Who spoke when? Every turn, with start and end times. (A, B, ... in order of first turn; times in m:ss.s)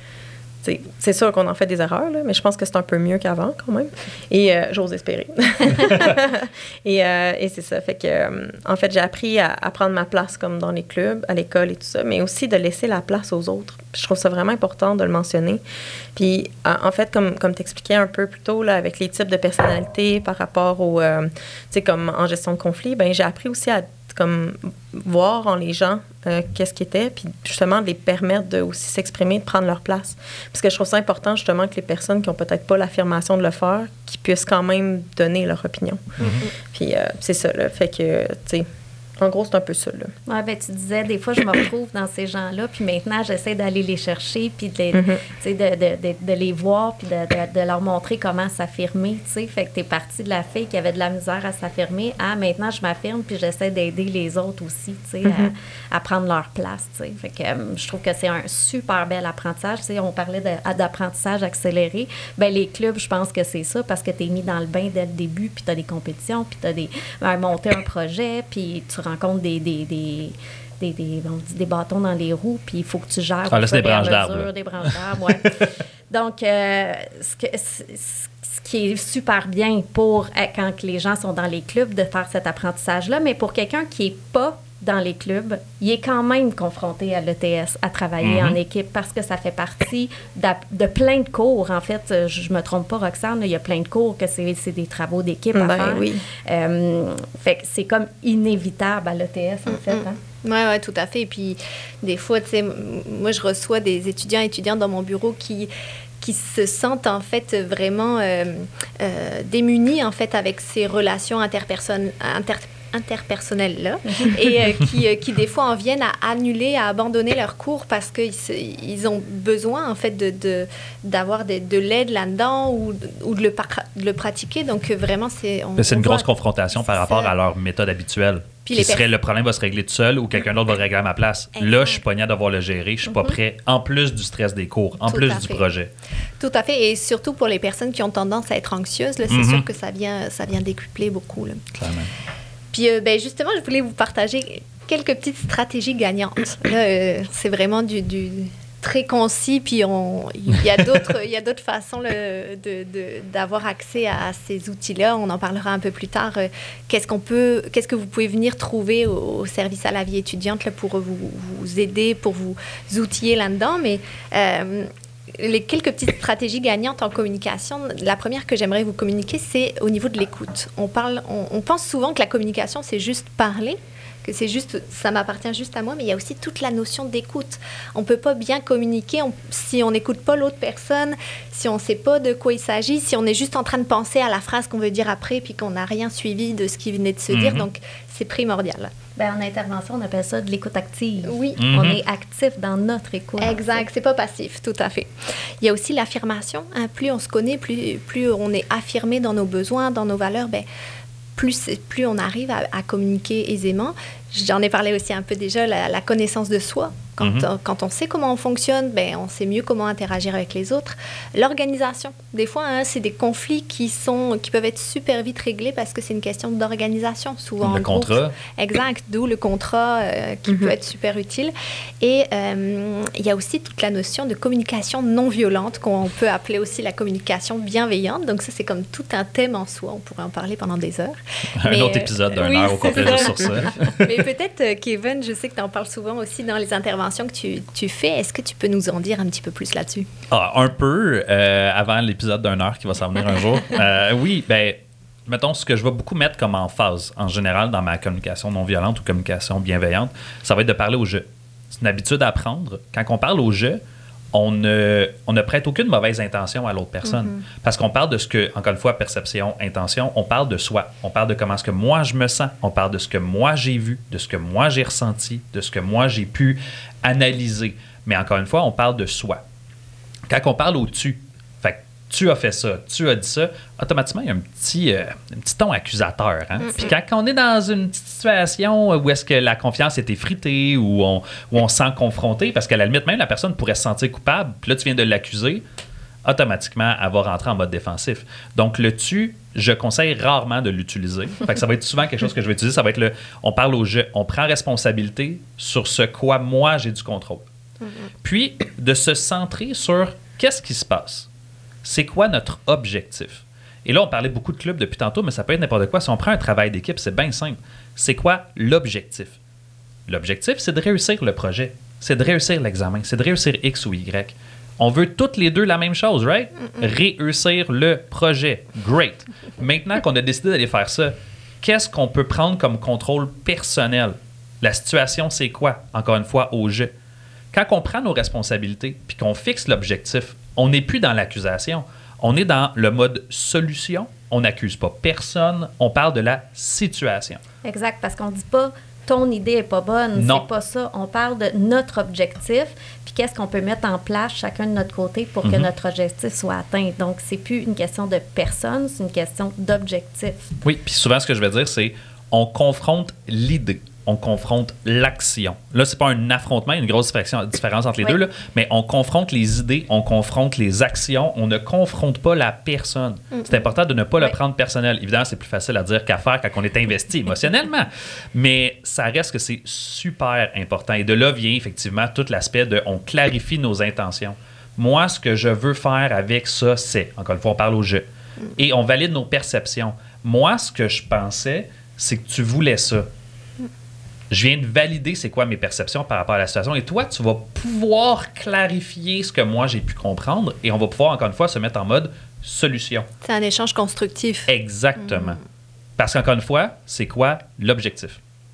0:00.6-0:15.6 A
0:16.1-0:38.7 A
0:36.2-0:36.4 B
0:39.2-0:40.1 A
0:40.3-1:40.2 C
0:44.9-0:45.2 A
0:55.2-0:55.5 A
1:13.5-1:14.9 B
1:28.2-1:28.6 B
1:35.5-1:36.2 A
1:39.7-2:07.3 D
2:05.8-2:15.9 B
2:08.6-2:09.1 D
2:11.6-2:12.0 D
2:15.0-2:15.6 D
2:16.4-2:21.6 D
2:19.3-2:19.6 B
2:21.8-2:22.1 B
2:22.7-3:08.9 D
3:07.3-3:07.7 B
3:09.2-3:13.8 C
3:11.2-3:11.6 D
3:11.6-3:12.0 B
3:13.4-3:20.6 D
3:21.4-4:00.1 D
3:27.2-3:27.5 B
3:37.6-3:38.3 B
3:40.5-3:40.7 A
3:51.6-3:54.1 B
4:00.3-4:13.8 B
4:14.3-4:29.4 B
4:17.0-4:17.4 D
4:30.3-4:45.6 B
4:36.6-4:36.9 D
4:46.2-4:57.4 B
4:58.2-5:01.3 B
5:01.8-5:09.3 B
5:10.1-5:26.9 B
5:27.5-5:37.4 B
5:37.6-5:50.5 C
5:40.2-5:40.4 B
5:50.6-6:23.1 B
6:24.3-6:33.1 B
6:33.2-6:35.4 D
6:34.5-6:35.4 B
6:36.0-6:38.2 B